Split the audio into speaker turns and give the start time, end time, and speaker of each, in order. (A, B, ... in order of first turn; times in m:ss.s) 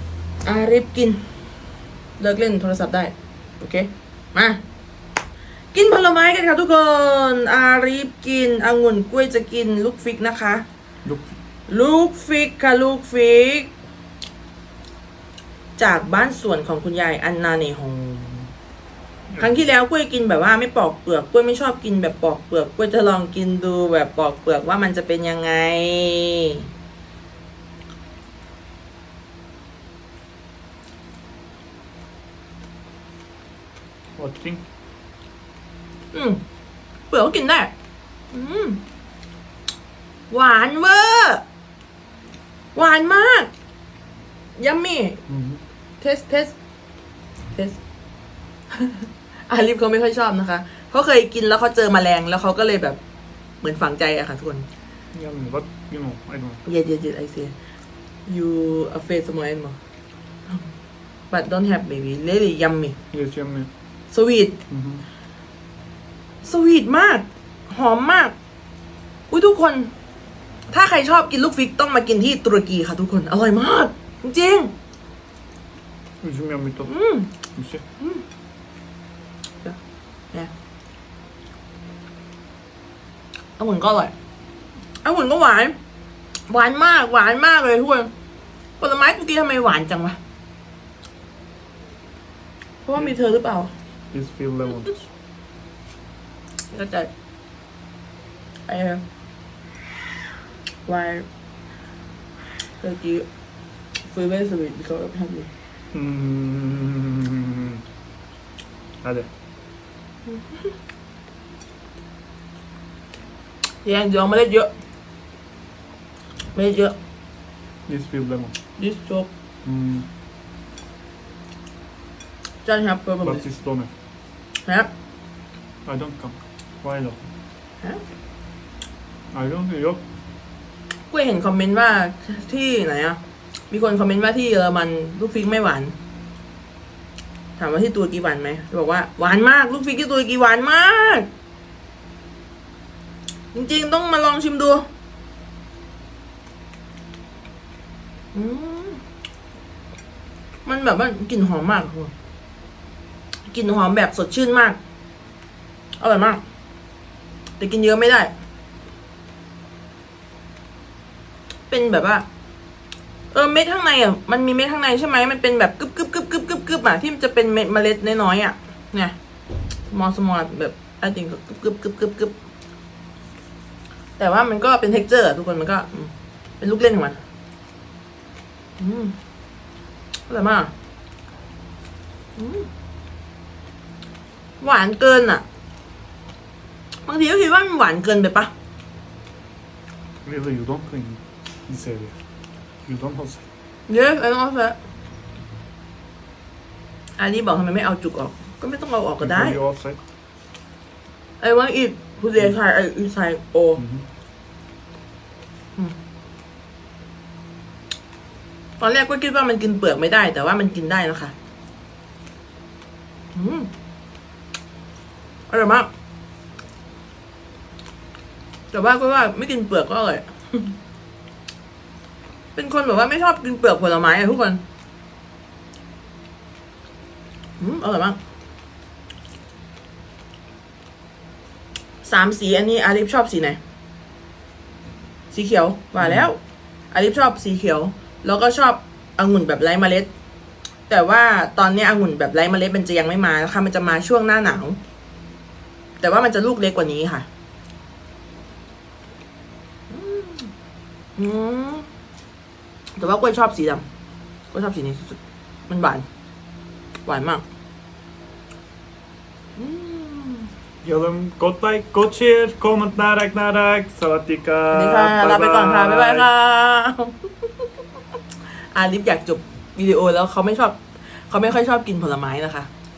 0:00.4-0:01.2 A
0:02.2-0:04.6 A
0:05.7-0:10.6 A
0:11.0-0:11.3 B
0:11.7-0:13.7 A
0:15.8-0:18.5 A
0:19.3-0:19.6 B
0:19.4-0:26.7 A
0:34.2-0:34.6 B
0:36.1-0:36.4 A
0:37.1-0:37.7 A
0:38.3-0:38.8 A
0:40.3-0:41.4 A
0:42.7-0:43.5 A
0:44.6-0:45.2 A
0:45.3-0:45.6 B
0:46.0-0:46.5 A
0:48.7-0:53.0 A
0:53.6-0:54.7 A
0:55.1-0:56.6 B
0:56.6-0:57.5 A
0:58.3-0:59.8 A
1:01.3-1:03.0 A
1:03.1-1:03.7 B
1:04.1-1:04.6 A
1:04.7-1:05.0 B
1:06.4-1:08.3 A
1:09.3-1:09.9 A
1:10.7-1:14.7 A
1:16.2-1:16.9 B
1:16.8-1:17.3 A
1:17.5-1:17.8 B
1:23.6-1:24.1 A
1:25.0-1:25.8 A
1:26.5-1:28.1 A
1:28.8-1:30.2 A
1:32.8-1:33.7 A
1:34.1-1:35.1 B
1:36.7-1:37.1 A
1:38.7-1:39.0 A
1:40.8-1:41.3 A
1:42.8-1:43.3 A
1:44.0-1:45.5 A
1:45.9-1:47.8 B
1:49.0-1:49.3 B
1:50.3-1:50.7 A
1:53.8-1:54.7 A
1:56.5-1:57.0 A
1:57.9-1:58.6 B
1:58.8-1:59.3 A
1:59.6-2:00.1 B
2:02.6-2:03.4 A
2:03.2-2:03.9 B
2:04.6-2:04.9 A
2:05.8-2:07.2 B
2:09.3-2:10.0 B
2:11.1-2:16.0 A
2:17.6-2:21.3 A
2:23.5-2:24.9 A
2:28.3-2:29.0 A
2:30.6-2:32.1 A
2:33.5-2:34.8 A
2:36.0-2:36.4 A
2:37.6-2:38.3 A
2:41.7-2:42.3 A
2:43.3-2:49.2 A
2:49.9-2:52.3 A
2:54.2-2:57.2 A
2:58.8-2:59.1 A
3:00.3-3:00.7 A
3:02.4-3:02.7 A
3:04.6-3:05.4 A
3:07.0-3:08.5 A
3:10.2-3:12.2 B
3:12.8-3:13.4 B
3:13.9-3:14.8 A
3:17.2-3:19.6 A
3:19.2-3:20.0 B
3:21.4-3:23.8 A
3:23.8-3:24.1 B
3:28.8-3:31.3 A
3:33.3-3:33.7 A
3:35.5-3:35.9 A
3:38.7-3:40.8 A
3:42.5-3:44.6 A
3:47.6-3:48.2 A
3:52.0-3:53.6 A
3:55.3-3:56.4 A
3:56.0-3:56.3 B
3:56.9-4:00.1 A
4:00.9-4:04.8 A
4:06.0-4:07.3 A
4:09.9-4:10.5 A
4:11.2-4:11.9 A
4:13.0-4:13.8 A
4:14.5-4:16.0 A
4:17.0-4:17.4 A
4:19.6-4:20.5 A
4:20.8-4:26.3 B
4:24.7-4:27.5 A
4:28.7-4:32.7 A